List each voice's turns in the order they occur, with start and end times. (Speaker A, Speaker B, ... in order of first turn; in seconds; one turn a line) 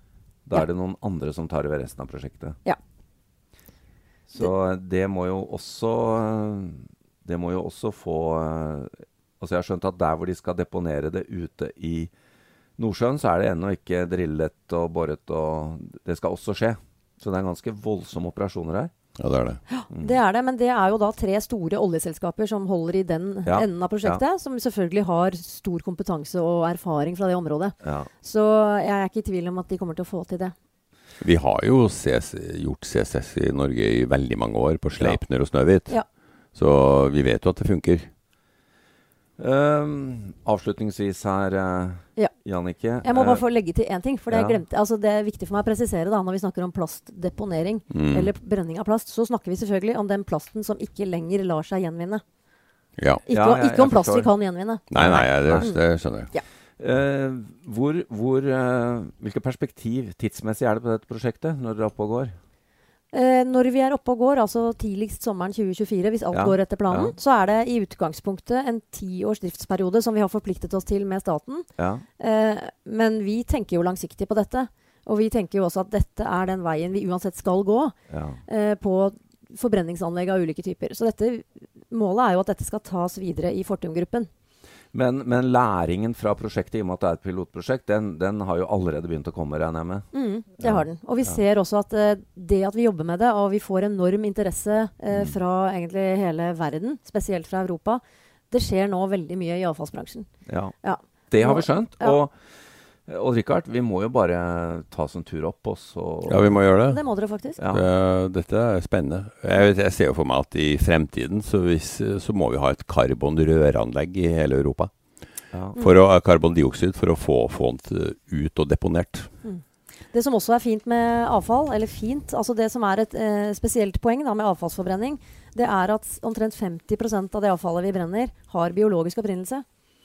Speaker A: 0.5-2.6
Speaker A: 4.3-12.1
Speaker A: 12.8-18.9
Speaker B: 19.2-19.6
Speaker C: 19.7-30.5
Speaker A: 23.5-24.2
Speaker A: 27.8-28.1
Speaker B: 31.2-36.0
Speaker B: 36.5-38.1
Speaker A: 39.4-43.4
Speaker C: 43.0-52.2
Speaker A: 44.3-44.6
Speaker B: 47.9-48.3
Speaker B: 53.0-53.2
Speaker C: 53.3-54.9
Speaker A: 53.3-54.3
Speaker B: 54.9-56.3
Speaker A: 54.9-55.8
Speaker C: 55.5-55.8
Speaker A: 56.8-62.3
Speaker C: 63.1-71.7
Speaker A: 66.3-67.2
Speaker A: 71.8-72.0
Speaker C: 72.2-78.0
Speaker A: 78.1-78.4
Speaker C: 78.5-84.3
Speaker A: 84.9-90.1
Speaker C: 90.1-100.3
Speaker A: 90.6-91.4
Speaker A: 95.1-95.4
Speaker A: 100.5-100.8
Speaker C: 100.8-102.2
Speaker A: 101.3-102.3
Speaker A: 103.1-106.6
Speaker B: 106.3-107.0
Speaker C: 106.9-107.6
Speaker A: 107.6-107.9
Speaker B: 107.7-114.9
Speaker A: 115.5-115.8
Speaker B: 115.8-119.3
Speaker C: 119.4-129.7